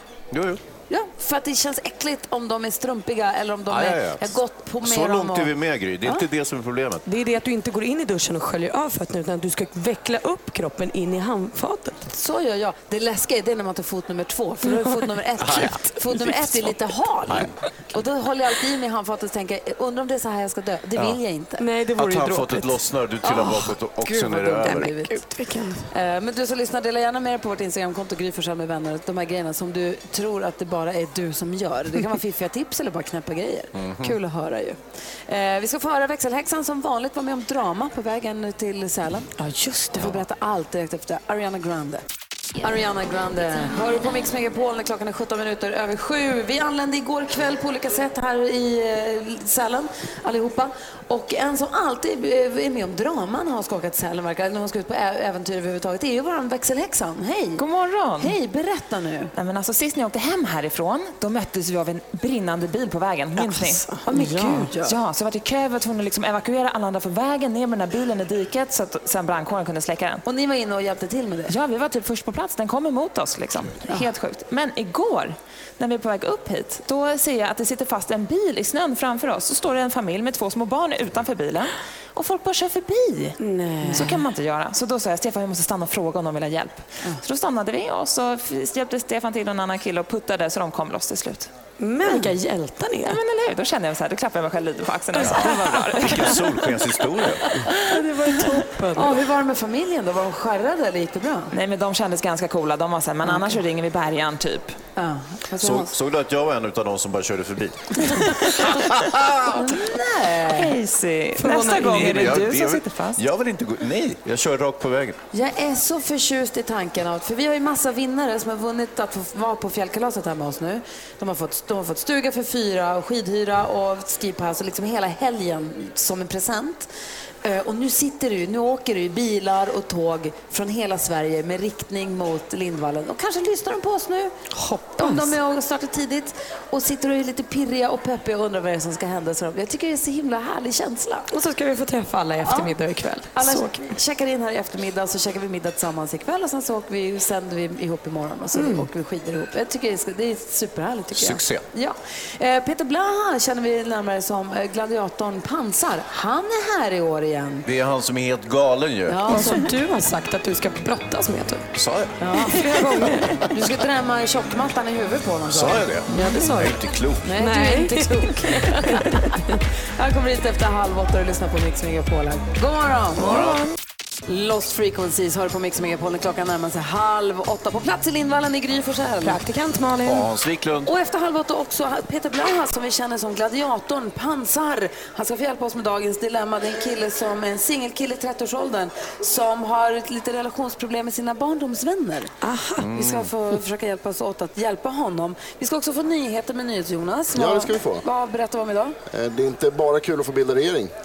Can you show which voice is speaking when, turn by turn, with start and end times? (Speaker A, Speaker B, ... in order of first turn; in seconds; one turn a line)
Speaker A: 0.3-0.6
Speaker B: 0.9-6.2
Speaker A: 3.7-4.3
Speaker A: 4.8-7.0
Speaker C: 7.1-12.1
Speaker B: 12.1-21.6
Speaker C: 14.6-14.9
Speaker C: 15.5-15.9
Speaker C: 21.6-23.7
Speaker A: 21.9-24.9
Speaker B: 24.0-25.2
Speaker C: 24.6-25.9
Speaker B: 25.9-39.4
Speaker A: 33.8-34.1
Speaker C: 39.4-40.0
Speaker B: 40.0-42.0
Speaker B: 42.6-57.6
Speaker D: 57.6-58.4
Speaker B: 58.2-59.3
Speaker D: 59.3-63.9
Speaker C: 63.5-64.7
Speaker B: 64.0-65.0
Speaker D: 64.8-70.2
Speaker B: 70.2-71.6
Speaker D: 71.5-83.4
Speaker C: 83.4-84.1
Speaker B: 83.8-84.2
Speaker D: 83.9-91.5
Speaker C: 91.8-93.2
Speaker D: 93.0-96.3
Speaker A: 95.2-97.5
Speaker C: 97.9-99.0
Speaker B: 98.9-101.5
Speaker D: 101.5-104.8
Speaker B: 105.0-105.9
Speaker A: 105.6-109.5
Speaker B: 109.5-110.8
Speaker D: 110.5-113.2
Speaker C: 111.4-112.4
Speaker A: 111.9-115.2
Speaker B: 115.3-126.9
Speaker B: 127.4-134.3
Speaker C: 134.5-135.3
Speaker B: 135.0-141.3
Speaker C: 141.3-143.9
Speaker B: 142.4-142.8
Speaker B: 143.3-157.6
Speaker C: 148.6-148.9
Speaker A: 151.1-151.6
Speaker A: 157.7-159.2
Speaker B: 159.1-159.7
Speaker C: 159.3-161.7
Speaker A: 161.8-162.2
Speaker B: 162.2-162.7
Speaker C: 162.4-163.4
Speaker B: 163.4-166.3
Speaker A: 165.5-167.3
Speaker C: 166.1-166.8
Speaker B: 167.2-169.4
Speaker C: 167.3-169.4
Speaker B: 169.9-173.6
Speaker A: 173.2-173.6
Speaker B: 174.3-179.4
Speaker C: 179.2-180.3
Speaker A: 180.1-180.9
Speaker B: 180.8-192.3
Speaker C: 192.4-192.8
Speaker A: 192.8-193.3
Speaker B: 192.9-199.0
Speaker E: 197.4-198.0
Speaker E: 199.1-200.9